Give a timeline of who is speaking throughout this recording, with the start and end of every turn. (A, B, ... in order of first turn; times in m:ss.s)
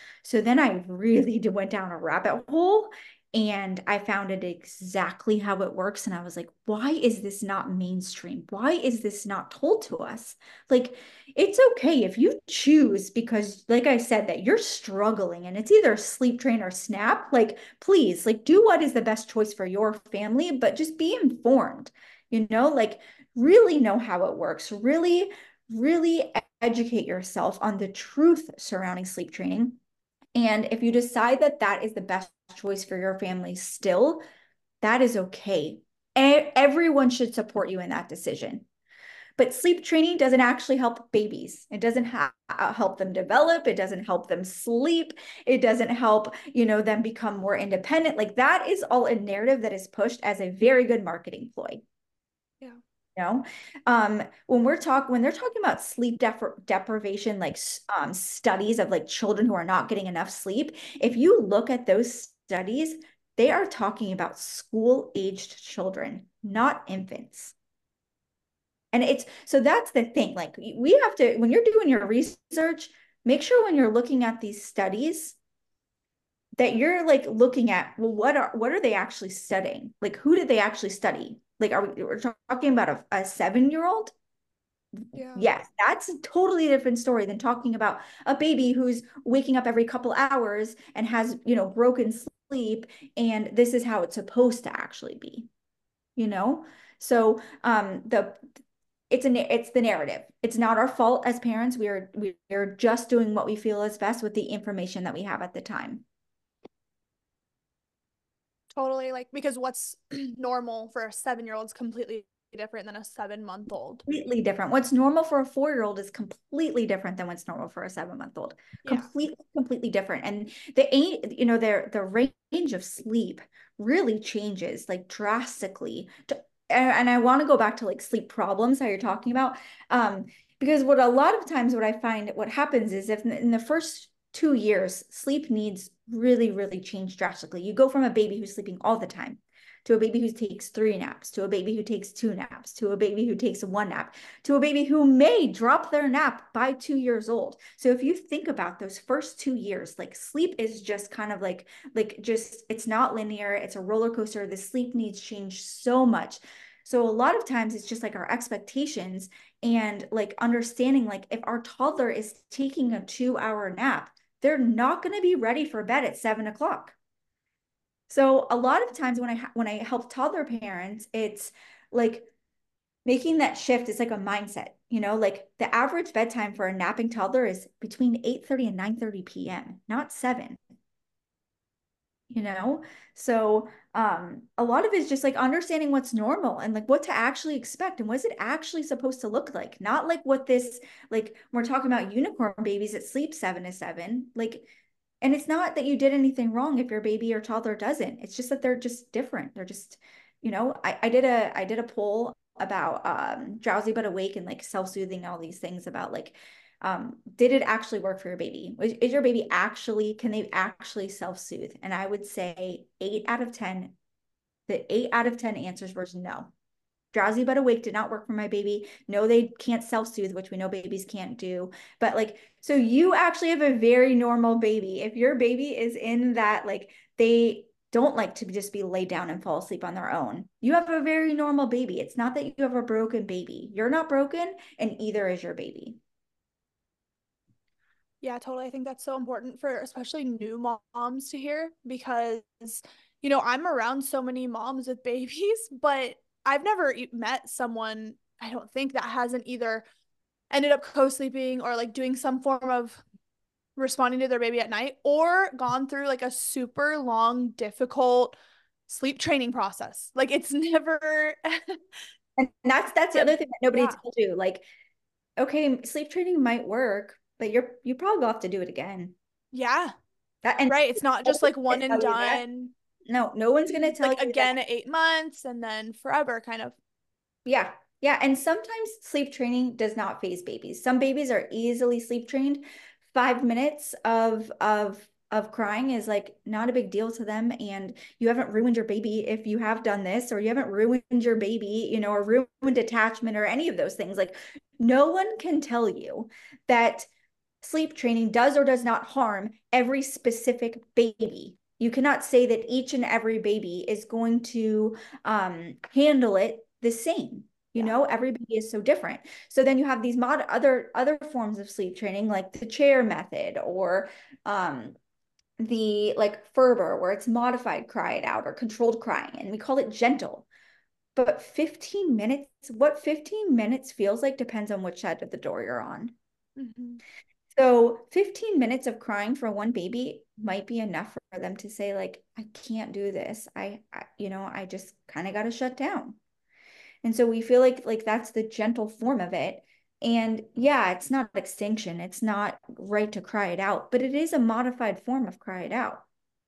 0:00.2-0:29.8 A
0:30.4-0:34.2 A
0:34.8-0:38.6 A
0:39.4-0:51.8 A
0:53.2-1:07.5 A
1:08.9-1:15.4 A
1:16.6-1:24.1 A
1:25.0-1:35.5 A
1:25.1-1:25.4 B
1:36.2-1:38.4 A
1:39.1-1:46.0 A
1:48.7-1:54.0 B
1:54.1-2:47.0 A
2:48.1-2:52.3 A
2:53.0-3:00.6 A
3:02.3-3:14.7 A
3:15.2-3:33.9 A
3:34.7-3:36.5 A
3:37.1-3:56.0 A
3:58.2-4:09.8 B
4:10.5-4:13.0 B
4:13.8-4:18.4 B
4:18.9-4:21.8 B
4:22.4-4:24.6 A
4:23.2-4:24.0 B
4:25.4-4:29.1 A
4:29.5-4:29.9 B
4:30.4-4:32.4 A
4:30.7-4:32.7 B
4:33.1-4:34.5 A
4:33.7-4:36.8 B
4:37.4-4:57.1 A
4:57.6-5:14.9 A
5:15.6-5:20.4 A
5:21.2-5:26.1 A
5:26.6-5:27.0 B
5:27.5-5:36.2 A
5:37.0-5:46.0 A